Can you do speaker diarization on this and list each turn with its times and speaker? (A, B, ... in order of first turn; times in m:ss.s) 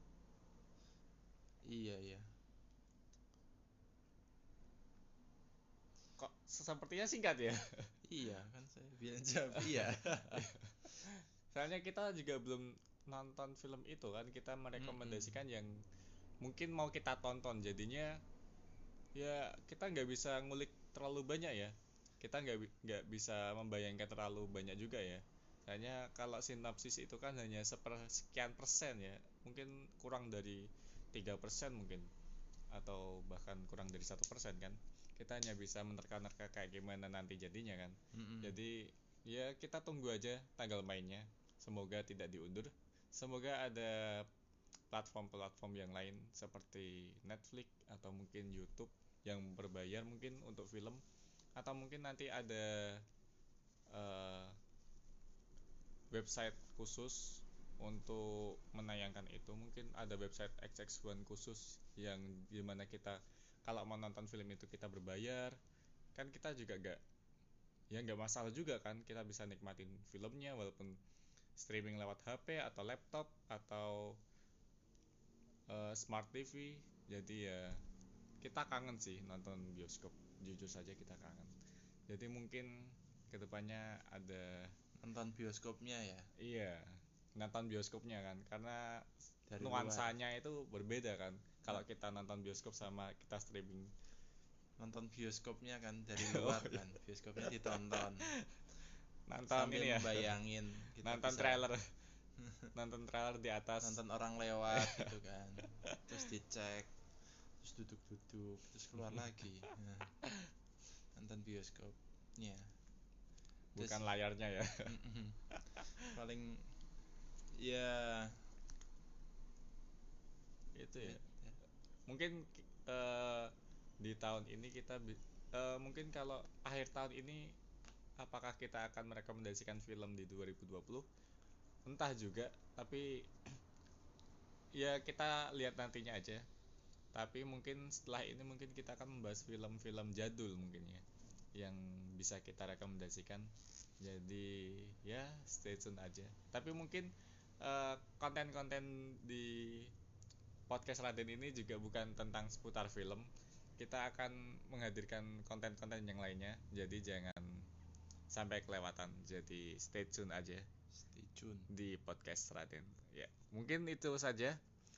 0:01.7-0:02.3 A
0:06.2-0:08.0 B
0:08.1-0:10.5 A
0:09.6-0:15.7 B
0:14.8-0:15.4 A
0:16.4-0:18.1 B
0:19.2-0:32.1 B
0:32.7-0:44.3 B
0:38.1-0:38.6 A
0:44.9-0:51.0 B
0:51.6-0:53.0 B
0:53.9-0:54.5 B
0:56.1-1:05.6 B
1:06.2-1:07.0 B
1:07.9-1:11.0 B
1:11.6-1:14.2 B
1:15.7-1:17.8 B
1:18.4-1:21.5 B
1:22.1-1:22.7 B
1:23.3-1:24.7 B
1:25.0-1:26.3 A
1:26.4-1:29.0 B
1:29.5-1:30.1 A
1:29.6-1:33.9 B
1:34.8-1:38.3 A
1:36.2-1:36.8 B
1:37.4-1:38.3 B
1:39.3-1:40.3 B
1:39.5-1:41.6 A
1:41.0-1:41.8 B
1:42.4-1:42.7 A
1:42.8-1:44.0 B
1:43.8-1:46.9 A
1:44.8-1:45.1 B
1:47.6-1:50.1 A
1:51.2-1:52.7 A
1:53.8-1:54.9 B
1:53.8-1:54.1 A
1:54.9-1:55.4 A
1:55.5-1:56.1 B
1:56.1-1:56.6 A
1:57.6-1:58.4 A
2:00.8-2:01.2 B
2:01.0-2:01.6 A
2:02.1-2:07.5 B
2:08.2-2:11.1 B
2:11.9-2:13.1 B
2:14.8-2:16.4 B
2:17.2-2:21.0 B
2:21.6-2:23.5 B
2:24.0-2:27.1 B
2:27.6-2:29.9 B
2:30.7-2:37.7 B
2:38.3-2:40.6 B
2:41.0-2:41.7 A
2:41.7-2:44.6 B